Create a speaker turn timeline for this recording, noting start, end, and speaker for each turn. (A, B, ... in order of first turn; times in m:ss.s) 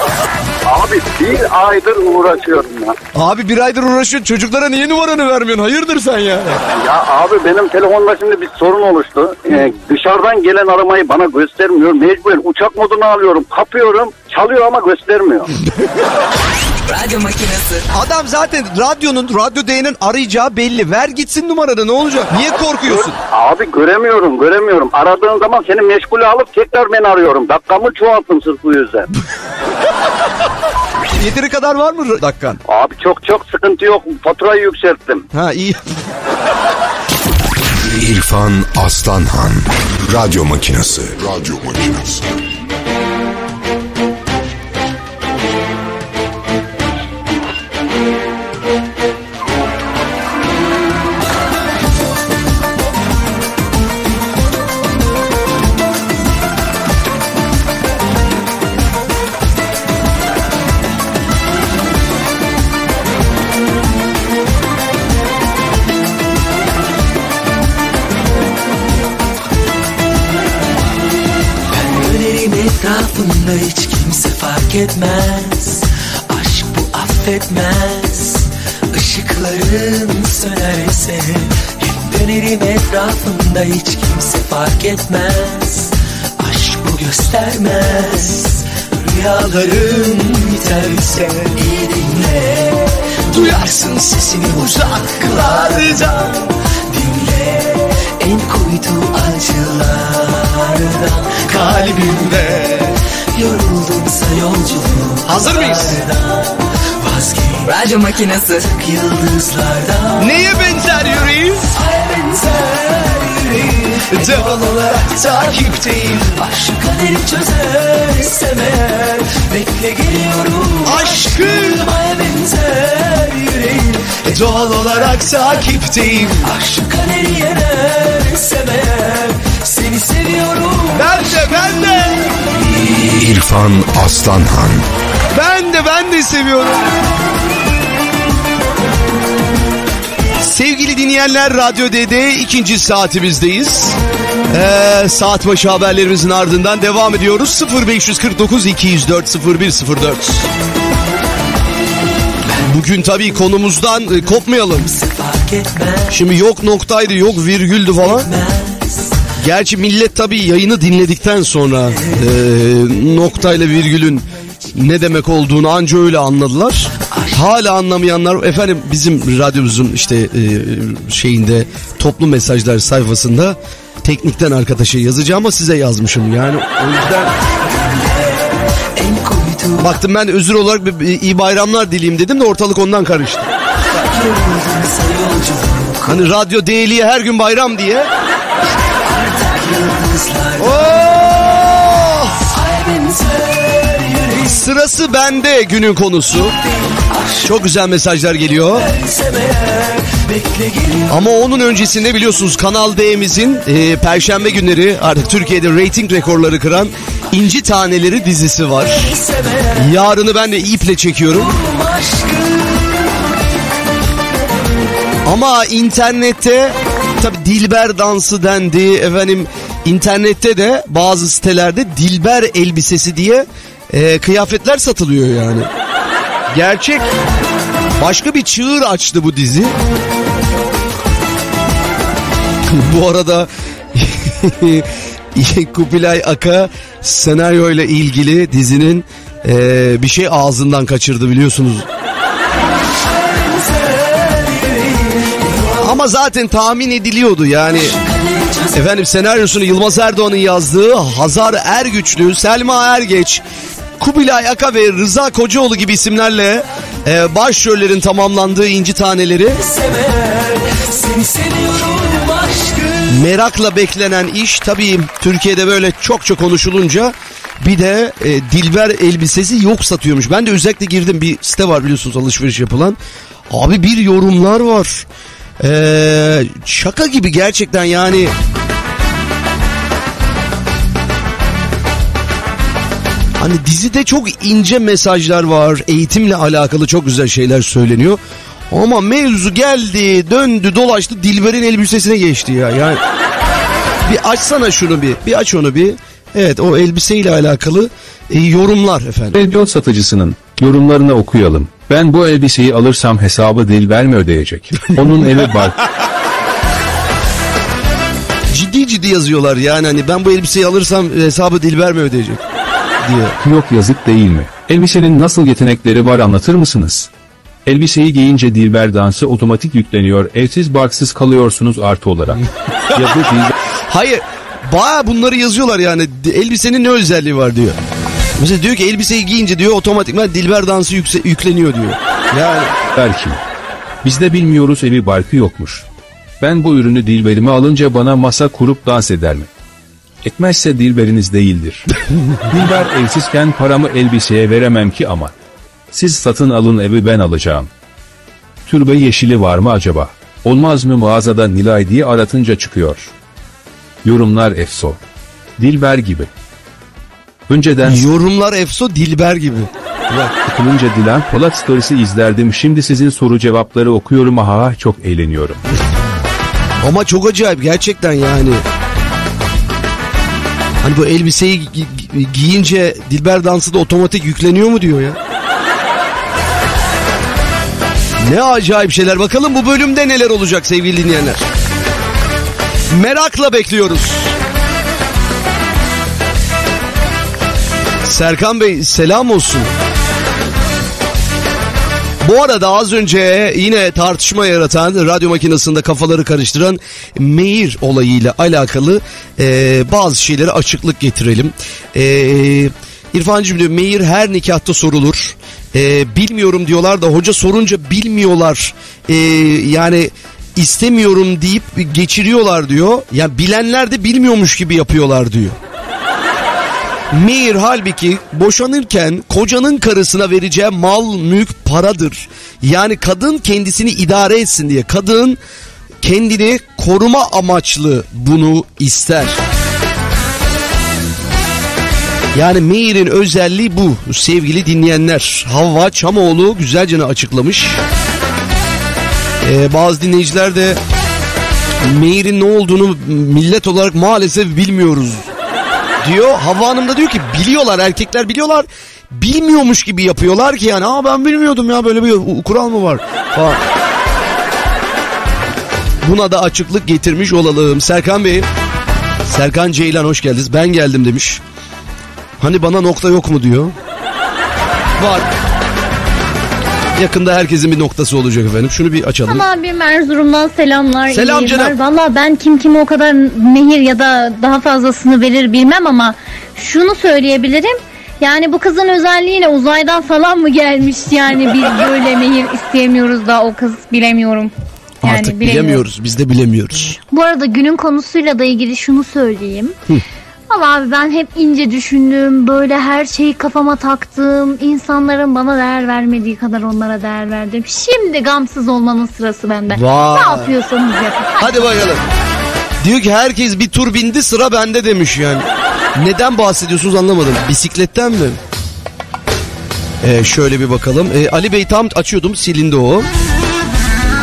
0:00.6-0:03.0 A
0:03.1-0:06.6 B
0:06.7-0:15.5 A
0:16.9-0:17.8 C
0:17.9-0:23.2 B
0:22.8-0:29.1 A
0:31.2-0:32.6 B
0:32.7-0:35.2 A
0:35.3-0:35.8 B
0:37.8-0:42.2 D
1:11.7-1:47.7 E
1:42.1-1:42.7 B
1:45.2-1:46.0 B
1:47.6-1:48.6 C
1:48.6-1:50.3 E
1:50.2-1:51.7 B
1:51.7-2:04.2 E
1:54.1-1:54.6 B
2:00.8-2:01.9 B
2:04.2-2:06.4 B
2:06.4-2:11.9 E
2:10.9-2:12.3 B
2:13.2-2:14.8 D
2:15.3-2:16.9 B
2:20.4-2:24.0 B
2:24.5-2:30.5 B
2:32.6-2:34.9 B
2:34.8-2:36.1 E
2:36.1-2:38.3 B
2:38.0-2:39.2 E
2:39.4-2:57.3 B
2:47.1-2:47.4 E
2:57.6-2:59.9 E
2:59.8-3:03.5 B
3:03.9-3:06.2 E
3:06.0-3:08.1 B
3:08.6-3:10.8 E
3:10.6-3:12.3 B
3:12.4-3:14.6 E
3:14.5-3:16.5 B
3:16.6-3:17.5 E
3:17.4-3:18.8 B
3:18.8-3:21.2 E
3:21.1-3:29.1 B
3:29.0-3:29.8 E
3:29.8-3:31.5 B
3:31.4-3:33.0 E
3:35.2-3:45.7 B
3:46.5-3:47.1 B
3:48.0-3:49.7 B
3:52.7-4:01.9 B
4:03.1-4:05.8 E
4:05.8-4:07.9 B
4:07.8-4:08.8 E
4:08.7-4:13.4 B
4:14.0-4:19.6 B
4:19.6-4:23.0 E
4:23.1-4:33.0 B
4:33.5-4:35.0 B
4:35.6-4:38.3 B
4:43.4-4:48.2 B
4:48.7-4:53.0 B
4:54.0-4:59.4 B
4:59.3-5:05.8 F
5:08.5-5:12.4 B
5:13.0-5:13.3 B
5:13.4-5:17.1 F
5:17.6-5:22.4 F
5:22.9-5:23.5 F
5:23.9-5:27.8 B
5:28.4-5:32.7 B
5:32.9-5:33.4 F
5:34.0-5:35.8 F
5:36.4-5:39.5 F
5:40.2-5:41.8 F
5:42.5-5:45.3 F
5:45.9-5:47.7 F
5:48.6-5:53.1 F
5:54.0-5:55.0 F
5:55.6-5:56.3 F
5:57.5-5:58.1 F
5:57.8-6:00.3 B
6:00.4-6:05.6 F
6:06.8-6:08.6 B
6:10.8-6:15.2 B
6:18.2-6:21.4 B
6:22.9-6:24.3 B
6:28.0-6:29.7 B
6:32.2-6:55.6 B
6:57.1-7:05.4 B
7:06.0-7:09.4 B
7:12.3-7:17.8 B
7:19.4-7:20.8 B
7:21.8-7:25.3 B
7:26.0-7:33.6 B
7:36.0-7:38.5 B
7:39.2-7:41.4 B
7:42.4-7:43.7 B
7:45.0-7:45.3 B
7:47.0-7:49.4 B
7:49.2-8:04.5 G
7:51.1-7:51.7 B
8:05.0-8:07.0 B
8:05.0-8:05.8 G
8:07.1-8:09.7 G
8:10.5-8:21.9 G
8:19.7-8:20.5 B
8:21.4-8:22.0 B
8:22.8-8:28.4 B
8:30.0-8:33.1 B